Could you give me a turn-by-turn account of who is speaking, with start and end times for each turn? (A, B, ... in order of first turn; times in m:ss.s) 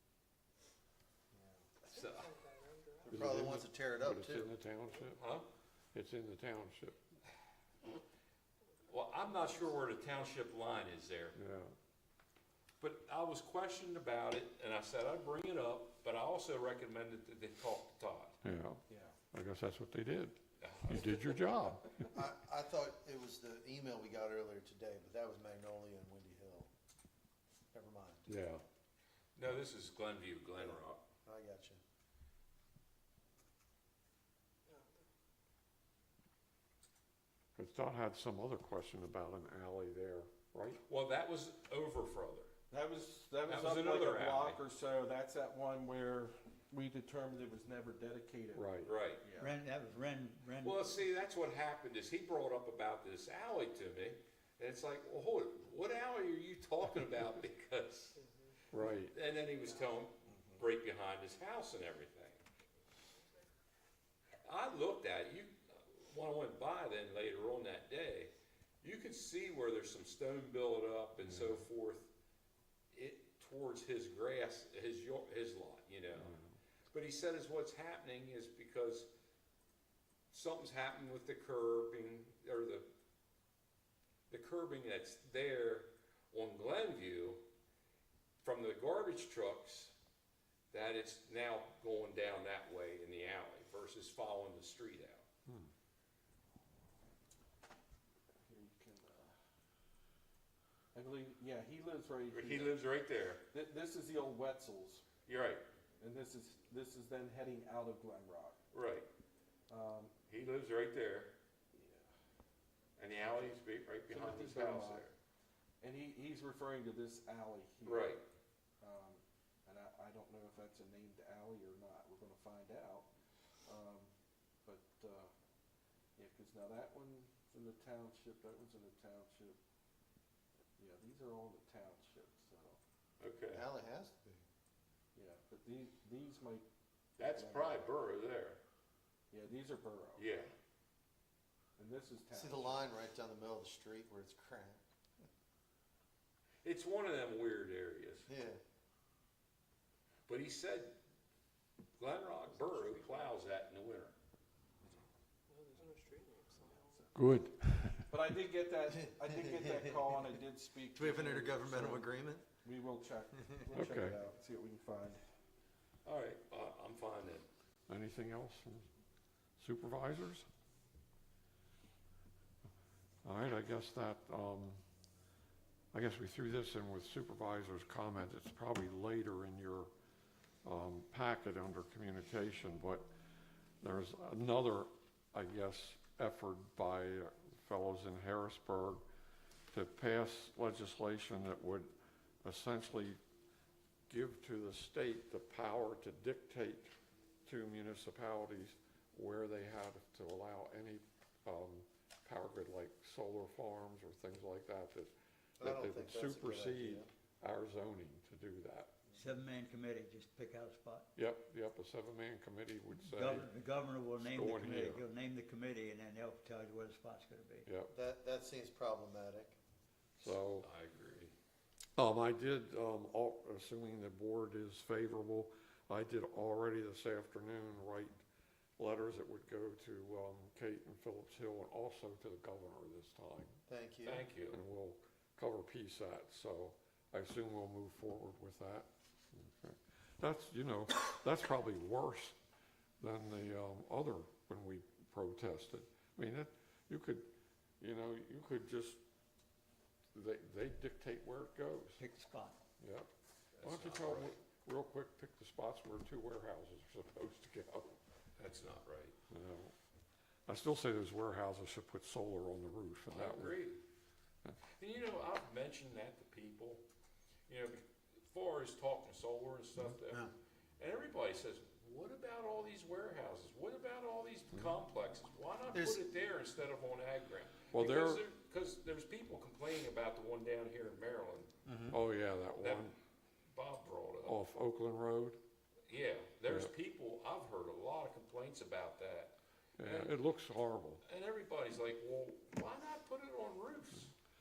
0:01.3-0:01.7 A
0:01.8-0:02.4 B
0:02.0-0:03.2 C
0:03.1-0:04.5 A
0:03.1-0:05.2 D
0:05.2-0:05.5 B
0:05.9-0:07.0 D
0:08.9-0:11.4 B
0:11.4-0:11.7 D
0:12.8-0:18.4 B
0:18.4-0:22.0 D
0:18.9-0:19.2 E
0:20.6-0:21.3 B
0:22.1-0:26.7 A
0:27.7-0:28.3 A
0:28.3-0:28.6 D
0:29.4-0:31.0 B
0:30.6-0:31.8 A
0:37.6-0:40.8 D
0:40.9-0:42.5 B
0:42.7-0:48.7 E
0:43.5-0:44.6 B
0:48.5-0:48.9 D
0:48.8-0:49.3 B
0:49.2-0:49.5 E
0:49.4-0:50.8 F
0:50.6-0:58.2 B
0:58.7-0:59.2 D
0:59.1-1:02.4 B
1:04.4-1:08.3 B
1:08.8-1:12.1 B
1:11.3-1:11.6 D
1:12.9-1:16.3 B
1:16.1-1:16.6 D
1:16.9-1:19.1 B
1:20.3-1:22.9 B
1:24.3-1:27.4 B
1:28.4-1:30.0 B
1:30.7-1:35.2 B
1:38.4-1:39.4 E
1:40.9-1:42.8 E
1:42.3-1:43.4 B
1:43.5-1:45.0 E
1:45.3-1:45.7 B
1:46.0-1:48.6 E
1:48.7-1:49.1 B
1:49.7-1:50.1 E
1:50.3-1:51.3 B
1:51.7-1:52.0 E
1:53.0-1:55.2 B
1:54.1-1:55.1 E
1:55.8-1:58.2 E
1:57.8-1:58.2 B
1:58.8-2:03.1 E
2:03.7-2:04.1 E
2:04.6-2:05.3 E
2:06.2-2:09.6 E
2:10.8-2:12.8 E
2:13.2-2:13.6 B
2:13.5-2:14.4 A
2:15.2-2:16.7 E
2:17.2-2:17.9 E
2:17.2-2:18.6 B
2:19.3-2:20.2 E
2:20.2-2:20.5 B
2:21.8-2:22.9 E
2:22.3-2:24.8 A
2:26.6-2:28.3 B
2:28.3-2:28.6 A
2:30.3-2:31.0 B
2:32.0-2:34.2 B
2:35.5-2:37.0 C
2:36.7-2:37.1 E
2:37.1-2:38.1 D
2:38.1-2:42.1 E
2:38.9-2:40.3 A
2:40.9-2:42.4 A
2:42.6-2:45.2 E
2:43.8-2:44.2 D
2:46.0-2:47.5 B
2:47.9-2:48.9 D
2:49.6-2:50.5 D
2:53.2-2:54.8 D
2:55.9-2:59.9 D
3:00.6-3:03.1 D
3:03.8-3:09.0 D
3:09.7-3:11.9 D
3:12.4-3:13.2 D
3:14.1-3:16.9 D
3:17.4-3:28.9 D
3:25.6-3:27.1 A
3:29.1-3:31.1 F
3:31.2-3:33.5 D
3:33.0-3:37.7 F
3:34.2-3:35.0 D
3:37.7-3:37.9 D
3:37.9-3:39.6 A
3:40.2-3:40.7 D
3:40.6-3:41.3 B
3:42.0-3:48.2 D
3:48.8-3:53.6 D
3:53.7-3:54.2 A
3:54.0-3:54.6 B
3:54.5-4:02.4 D
4:03.0-4:09.0 D
4:10.1-4:12.0 D
4:12.0-4:12.6 F
4:12.8-4:13.1 D
4:13.5-4:14.4 B
4:13.6-4:18.0 D
4:18.4-4:19.2 B
4:19.3-4:19.7 D
4:20.5-4:23.6 D
4:23.1-4:23.8 B
4:24.8-4:26.8 B
4:27.5-4:41.5 B
4:35.7-4:36.0 A
4:37.7-4:38.2 D
4:41.6-4:42.0 A
4:41.9-4:43.0 D
4:42.6-4:42.9 B
4:43.5-4:44.4 B
4:44.2-4:45.4 D
4:45.9-4:50.2 B
4:49.8-4:51.0 D
4:51.0-4:54.1 B